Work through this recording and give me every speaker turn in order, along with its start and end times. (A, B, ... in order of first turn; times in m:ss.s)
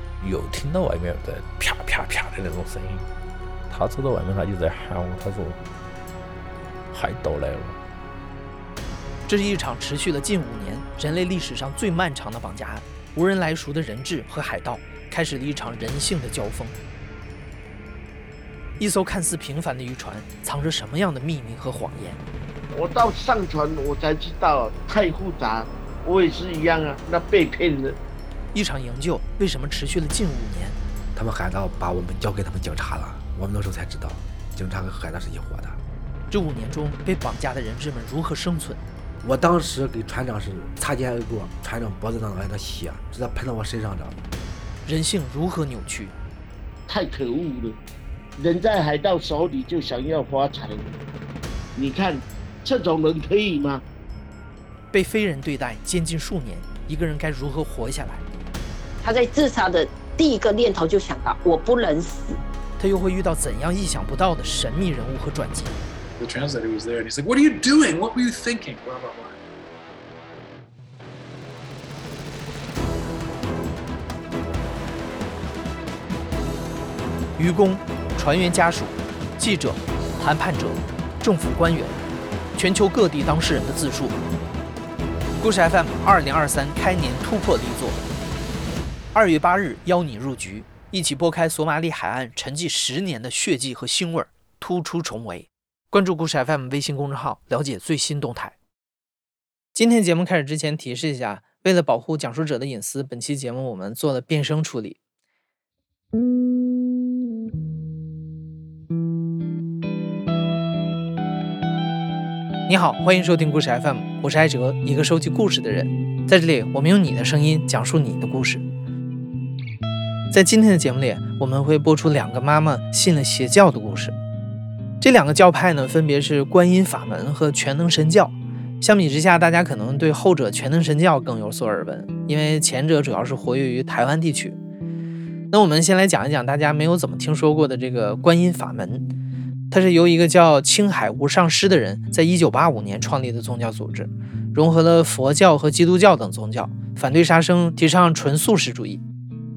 0:00.2-0:03.1 A
0:03.7-0:05.6 A
0:06.9-0:07.8 A
0:09.3-0:16.8 B
0:18.8-0:22.2 B
0:22.7-0:28.0 C
0:28.5-0:30.8 B
0:31.2-0:35.8 D
0:36.3-0:38.8 B
0:39.2-0:44.2 D
0:44.8-0:46.2 B
0:46.9-0:47.8 C
0:48.4-0:50.9 C
0:51.8-0:53.8 C
0:54.9-0:58.3 B
0:59.0-1:02.4 E
1:02.8-1:05.8 B
1:06.2-1:09.4 F
1:17.4-1:22.0 B
1:22.6-1:24.2 B
1:25.4-1:28.0 B
1:29.1-1:38.6 B
1:39.7-1:45.0 B
1:52.7-1:58.6 B
2:00.3-2:04.2 B
2:05.0-2:14.6 B
2:15.5-2:19.1 B
2:19.7-2:29.0 B